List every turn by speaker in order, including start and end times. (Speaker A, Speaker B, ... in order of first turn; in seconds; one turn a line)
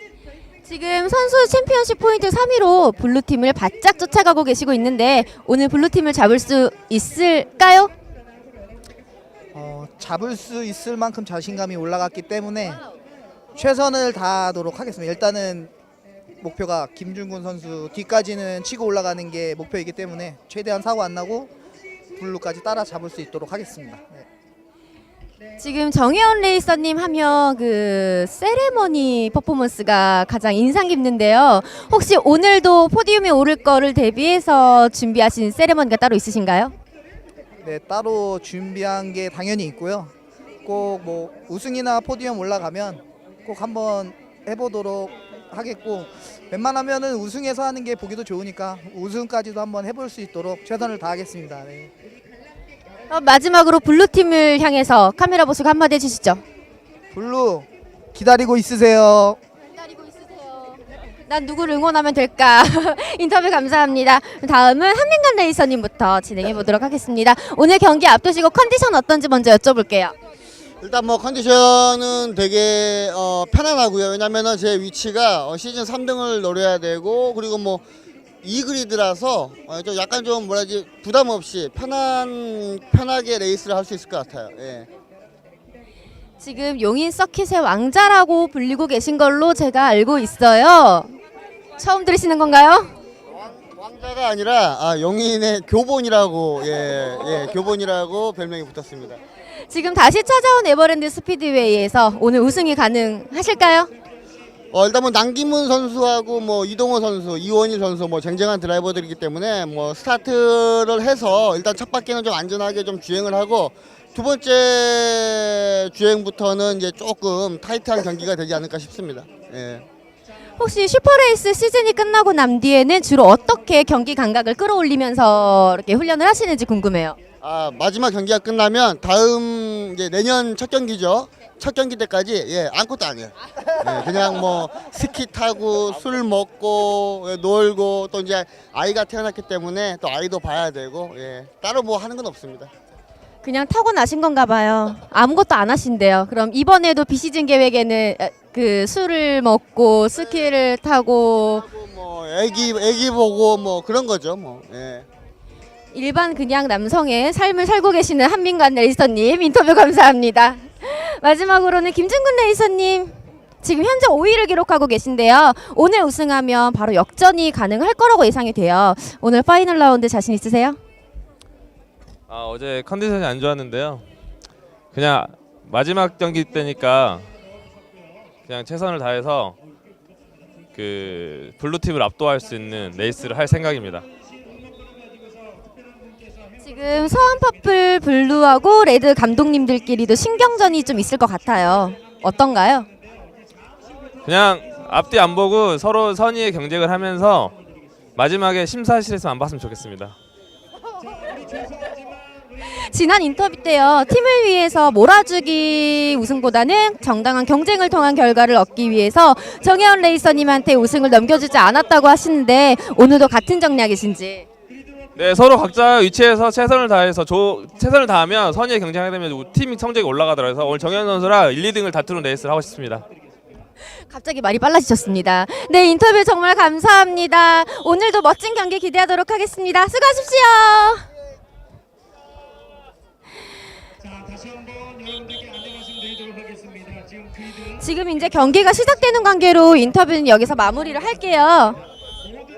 Speaker A: 0.6-7.9
Speaker B: 9.5-12.8
Speaker B: 13.5-15.7
Speaker B: 16.4-21.5
Speaker B: 22.2-24.2
Speaker A: 25.6-36.7
Speaker B: 37.6-40.1
Speaker B: 40.6-51.9
Speaker A: 53.1-56.4
Speaker B: 57.1-59.4
Speaker A: 59.8-60.8
Speaker A: 61.3-70.1
Speaker C: 70.8-77.8
Speaker C: 78.4-84.9
Speaker A: 86.4-91.2
Speaker A: 91.8-92.9
Speaker C: 93.3-99.2
Speaker A: 99.7-103.9
Speaker C: 104.7-119.8
Speaker A: 120.6-127.2
Speaker C: 127.4-142.7
Speaker A: 143.4-151.6
Speaker C: 150.2-150.5
Speaker C: 151.5-155.1
Speaker A: 155.9-170.8
Speaker D: 172.3-174.0
Speaker D: 174.9-177.3
Speaker D: 178.4-179.6
Speaker D: 180.7-184.1
Speaker A: 186.6-192.9
Speaker D: 194.2-197.6
Speaker D: 198.1-200.2
Speaker A: 202.7-214.4
Speaker D: 215.2-223.1
Speaker A: 224.1-231.1
Speaker A: 237.7-241.8